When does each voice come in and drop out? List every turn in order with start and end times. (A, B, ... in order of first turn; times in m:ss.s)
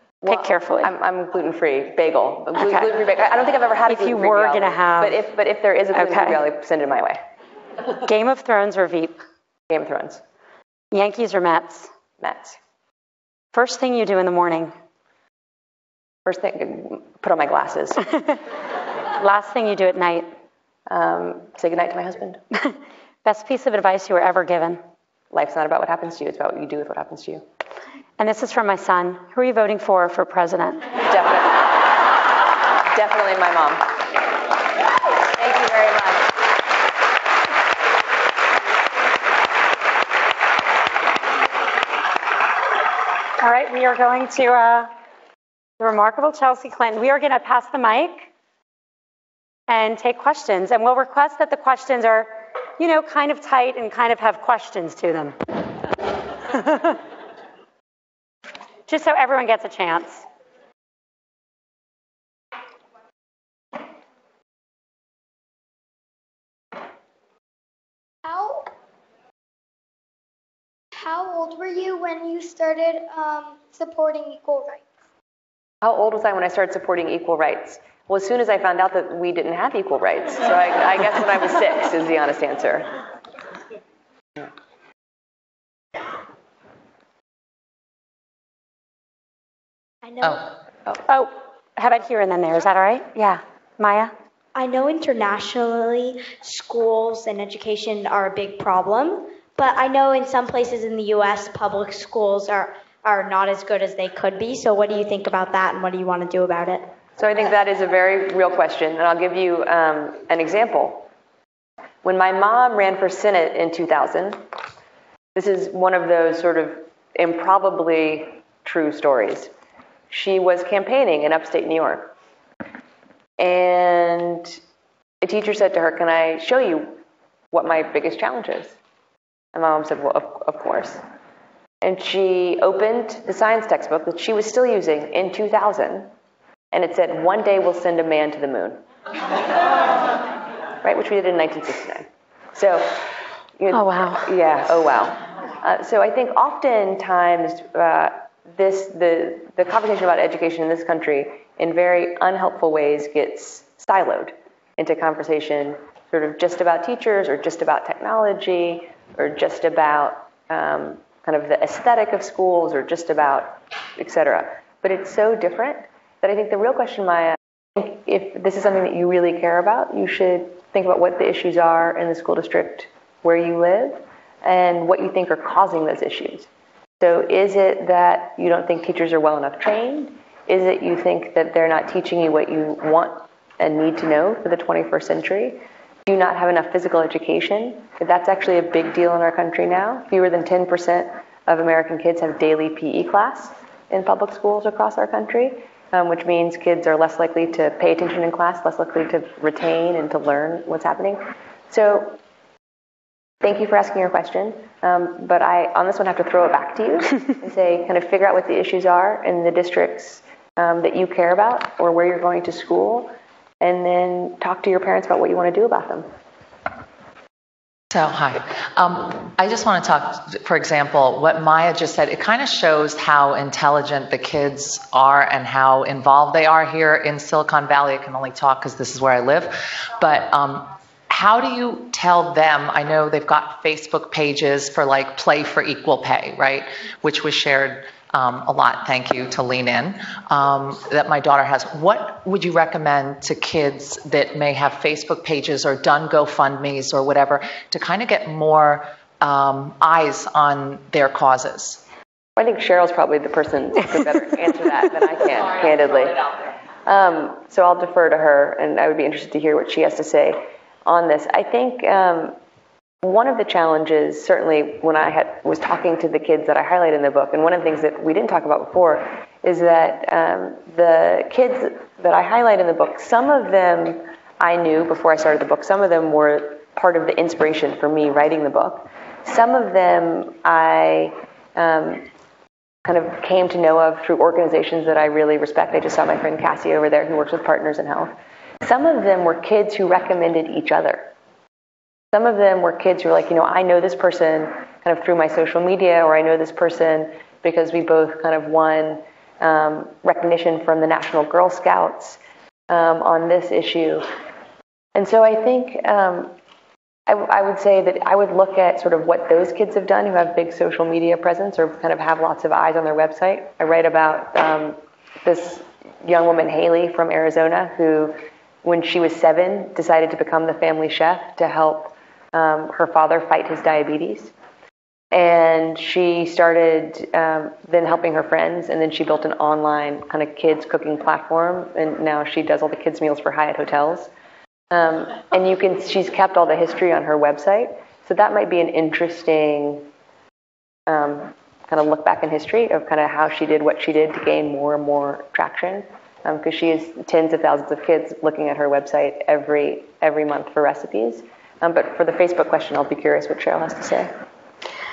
0:00.2-0:07.2 A
0:00.2-0:00.9 B
0:02.6-0:02.9 B
0:03.9-0:05.2 B
0:05.9-0:06.4 B
0:08.0-0:09.2 B
0:09.7-0:10.2 A
0:10.9-0:11.9 B
0:12.2-0:12.6 A
0:13.5-0:14.7 B
0:16.2-0:18.0 A
0:19.2-0:20.3 B
0:20.9-0:22.4 A
0:22.6-0:24.8 B
0:25.3-0:27.4 A
0:28.2-0:30.9 B
0:31.0-0:31.7 A
0:32.8-0:33.9 A
0:35.3-0:36.3 A
0:43.4-0:44.9 B
0:45.8-0:48.3 B
0:49.7-0:55.6 B
0:56.5-0:57.0 B
0:58.9-1:00.2 B
1:08.2-1:08.7 C
1:11.0-1:14.8 C
1:15.8-1:22.9 A
1:30.0-1:30.5 D
1:31.1-1:34.1 B
1:34.5-1:46.8 D
1:47.2-1:51.1 A
1:52.0-1:54.4 A
1:55.3-1:59.5 A
2:00.1-2:02.1 A
2:03.4-2:04.6 A
2:05.2-2:07.0 A
2:07.5-2:08.7 A
2:09.5-2:11.0 A
2:11.8-2:16.1 A
2:16.7-2:18.8 A
2:20.8-2:56.5 A
2:23.7-2:24.3 B
2:57.0-3:22.2 A
3:23.4-3:36.1 A
3:37.9-4:11.8 E
4:12.4-4:16.3 A
4:16.8-4:22.3 A
4:23.0-4:42.1 A
4:42.8-4:51.1 A
4:52.1-5:04.0 A
5:04.9-5:06.3 A
5:07.1-5:24.3 A
5:25.1-5:34.1 A
5:34.7-5:39.9 A
5:40.9-5:54.1 A